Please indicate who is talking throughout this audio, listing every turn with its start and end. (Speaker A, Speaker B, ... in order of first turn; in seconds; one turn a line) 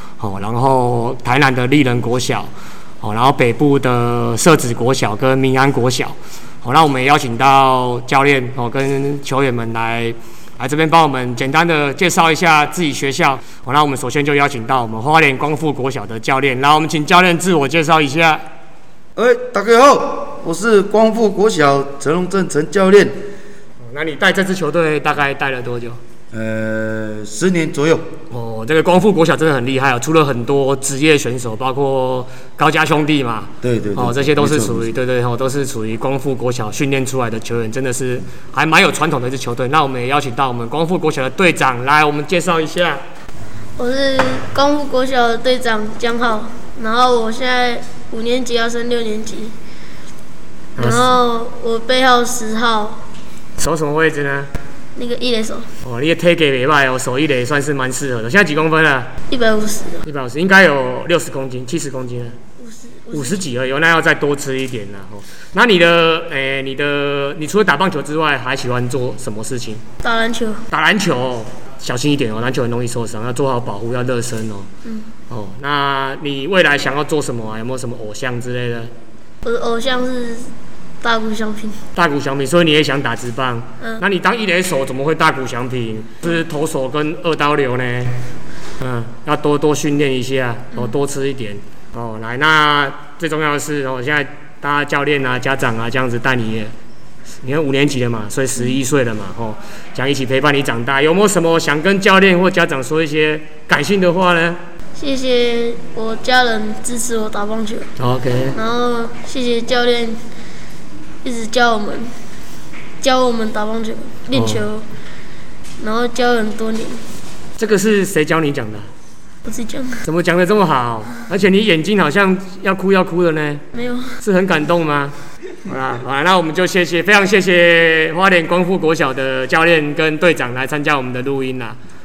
Speaker A: 0.2-2.5
Speaker A: 3.0-18.4
Speaker B: 19.2-23.2
Speaker A: 23.8-26.0
Speaker B: 26.3-28.1
Speaker A: 28.3-43.0
Speaker B: 33.6-34.9
Speaker C: 43.8-49.5
Speaker A: 50.8-51.2
Speaker C: 50.8-53.0
Speaker A: 53.6-54.5
Speaker C: 55.0-55.7
Speaker A: 55.8-59.1
Speaker C: 59.3-60.0
Speaker A: 60.0-62.4
Speaker C: 62.6-63.5
Speaker A: 63.1-69.8
Speaker C: 70.0-70.6
Speaker A: 70.7-74.7
Speaker A: 75.3-78.9
Speaker C: 79.4-81.8
Speaker A: 82.0-88.2
Speaker A: 88.8-96.7
Speaker A: 97.4-104.6
Speaker C: 105.0-107.9
Speaker A: 108.0-108.6
Speaker C: 108.5-110.2
Speaker C: 111.2-112.1
Speaker C: 113.0-114.9
Speaker A: 114.3-114.7
Speaker C: 115.8-117.0
Speaker A: 117.6-118.9
Speaker C: 119.5-120.0
Speaker A: 120.0-123.6
Speaker C: 123.7-124.1
Speaker A: 124.2-131.8